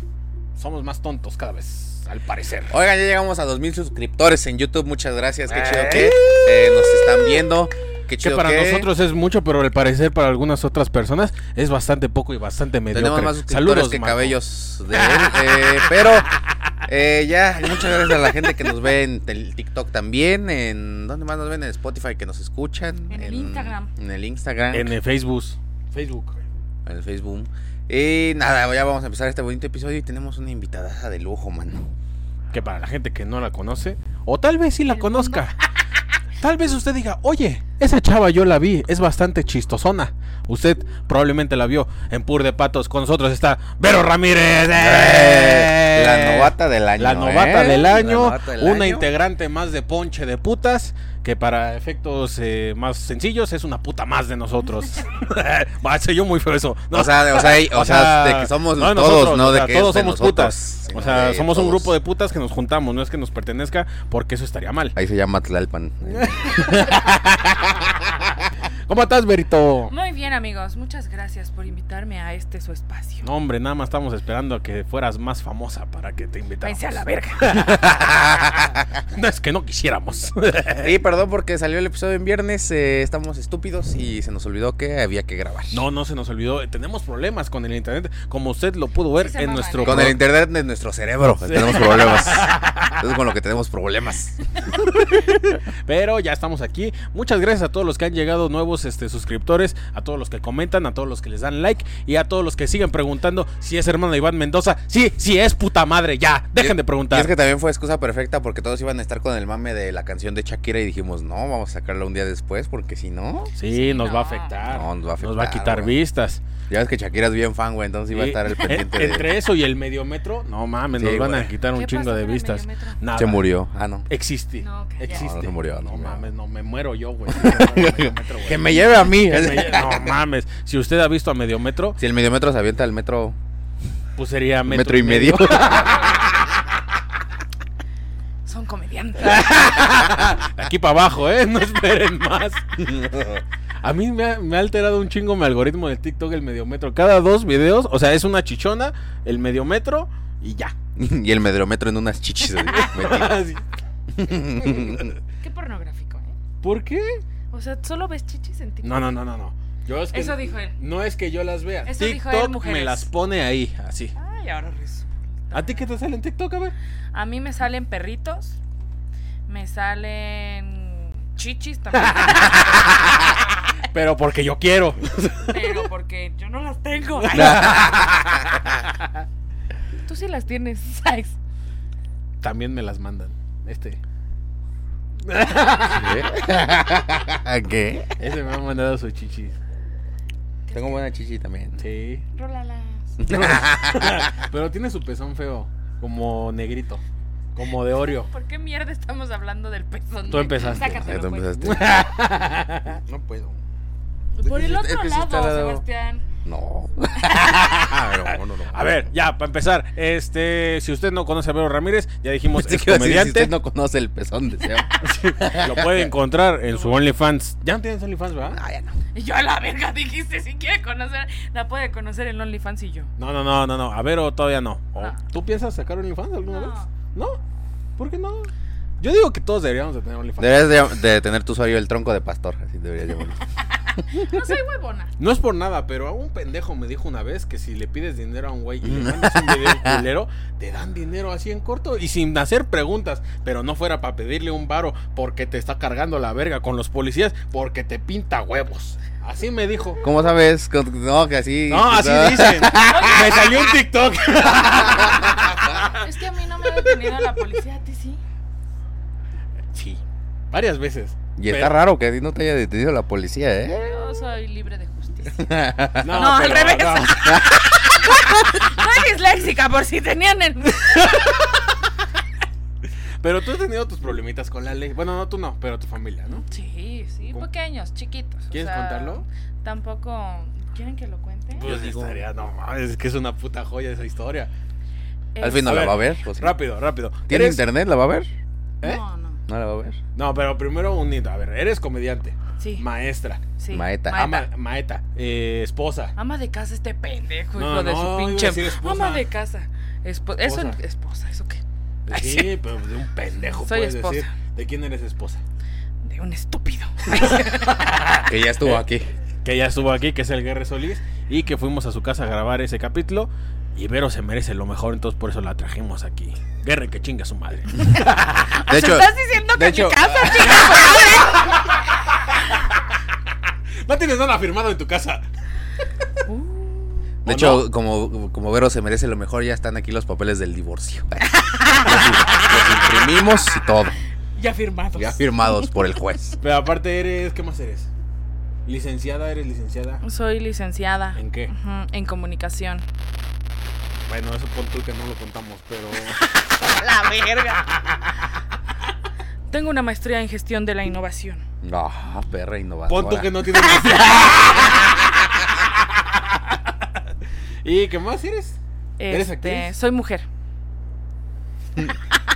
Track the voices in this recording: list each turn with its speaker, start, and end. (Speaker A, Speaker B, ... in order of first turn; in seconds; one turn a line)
Speaker A: 0.6-2.7
Speaker B: 2.7-8.9
Speaker A: 5.5-7.3
Speaker A: 8.2-14.4
Speaker B: 12.9-16.3
Speaker A: 14.9-16.2
Speaker B: 16.9-24.9
Speaker C: 23.1-23.9
Speaker A: 24.7-26.4
Speaker B: 26.9-31.9
Speaker A: 32.5-35.5
Speaker C: 34.9-35.5
Speaker A: 36.4-65.0
Speaker B: 44.8-49.1
Speaker B: 56.9-61.9
Speaker B: 65.0-67.1
Speaker A: 66.0-69.9
Speaker C: 69.9-73.3
Speaker A: 73.2-81.0
Speaker C: 76.6-77.6
Speaker B: 78.0-78.6
Speaker B: 80.8-85.8
Speaker A: 85.7-90.2
Speaker C: 89.2-90.1
Speaker B: 89.8-94.5
Speaker A: 91.4-93.2
Speaker A: 94.7-107.3
Speaker B: 106.6-113.5
Speaker A: 113.6-116.4
Speaker C: 113.7-114.6
Speaker B: 114.6-116.0
Speaker B: 116.7-119.3
Speaker A: 118.1-123.5
Speaker B: 120.9-121.5
Speaker C: 121.7-123.0
Speaker B: 123.1-124.1
Speaker A: 124.1-132.0
Speaker C: 124.6-125.3
Speaker B: 125.1-126.3
Speaker B: 127.3-130.2
Speaker B: 132.0-133.4
Speaker A: 134.2-136.6
Speaker B: 134.7-136.2
Speaker C: 138.5-139.6
Speaker A: 139.2-142.9
Speaker B: 142.8-143.4
Speaker A: 143.8-150.8
Speaker B: 151.0-153.4
Speaker A: 152.7-153.7
Speaker B: 154.1-155.2
Speaker A: 154.5-155.1
Speaker C: 155.4-156.4
Speaker A: 156.6-157.2
Speaker C: 157.5-159.2
Speaker A: 158.8-164.1
Speaker C: 160.1-160.8
Speaker C: 161.9-163.1
Speaker C: 164.2-166.0
Speaker A: 165.5-166.7
Speaker C: 167.1-168.6
Speaker C: 169.5-172.9
Speaker A: 172.0-175.9
Speaker C: 175.5-177.9
Speaker A: 177.2-179.2
Speaker B: 177.3-178.4
Speaker C: 180.1-181.4
Speaker A: 182.4-184.0
Speaker A: 185.2-186.3
Speaker B: 185.9-188.2
Speaker A: 188.2-189.6
Speaker C: 190.7-191.0
Speaker B: 190.7-191.8
Speaker A: 191.8-192.2
Speaker C: 192.3-193.2
Speaker B: 193.2-194.4
Speaker A: 193.2-197.0
Speaker A: 197.6-198.3
Speaker C: 198.0-202.0
Speaker A: 200.3-200.9
Speaker B: 200.6-202.1
Speaker A: 201.6-203.0
Speaker B: 203.1-203.6
Speaker C: 204.3-206.2
Speaker B: 204.4-205.8
Speaker B: 206.4-209.1
Speaker A: 207.2-213.6
Speaker B: 212.5-216.1
Speaker C: 214.6-215.2
Speaker A: 215.0-218.6
Speaker B: 218.5-219.0
Speaker C: 219.1-223.1
Speaker A: 223.2-227.4
Speaker C: 226.4-226.9
Speaker A: 228.0-230.9
Speaker B: 230.4-233.4
Speaker C: 234.0-235.1
Speaker A: 235.2-250.0
Speaker B: 238.8-240.1
Speaker B: 250.0-253.6
Speaker A: 251.7-256.0
Speaker C: 252.8-253.5
Speaker B: 254.9-255.3
Speaker C: 256.0-258.2
Speaker A: 259.7-261.8
Speaker B: 261.4-264.1
Speaker C: 263.7-265.5
Speaker B: 265.4-266.4
Speaker A: 266.0-267.4
Speaker C: 266.1-271.4
Speaker B: 267.2-267.5
Speaker A: 270.9-271.5
Speaker A: 273.2-276.4
Speaker C: 276.5-281.7
Speaker A: 278.5-279.2
Speaker A: 281.6-284.5
Speaker B: 281.6-282.2
Speaker C: 285.4-285.8
Speaker B: 285.4-286.6
Speaker A: 285.6-287.6
Speaker B: 287.3-288.3
Speaker C: 288.8-289.4
Speaker B: 289.5-290.0
Speaker A: 290.1-293.4
Speaker C: 292.6-292.9
Speaker C: 293.6-294.5
Speaker B: 293.7-294.3
Speaker A: 294.1-296.1
Speaker C: 296.2-302.5
Speaker A: 297.6-299.2
Speaker A: 300.4-300.8
Speaker A: 302.1-305.4
Speaker C: 303.6-304.3
Speaker C: 306.0-307.7
Speaker A: 307.1-308.8
Speaker B: 308.2-309.1
Speaker A: 309.4-318.5
Speaker B: 318.5-321.0
Speaker C: 318.6-321.6
Speaker A: 320.5-322.8
Speaker A: 323.8-325.2
Speaker C: 326.2-327.0
Speaker A: 327.2-327.6
Speaker B: 327.2-334.0
Speaker C: 331.3-333.0
Speaker C: 334.4-335.7
Speaker B: 334.9-336.4
Speaker A: 336.4-337.9
Speaker A: 338.7-340.0
Speaker C: 340.0-342.9
Speaker A: 341.2-341.5
Speaker A: 344.1-346.3
Speaker C: 346.7-347.6
Speaker A: 347.5-348.1
Speaker C: 349.5-351.4
Speaker B: 351.6-354.4
Speaker A: 352.9-355.2
Speaker A: 356.1-356.9
Speaker A: 357.6-359.7
Speaker C: 359.0-360.3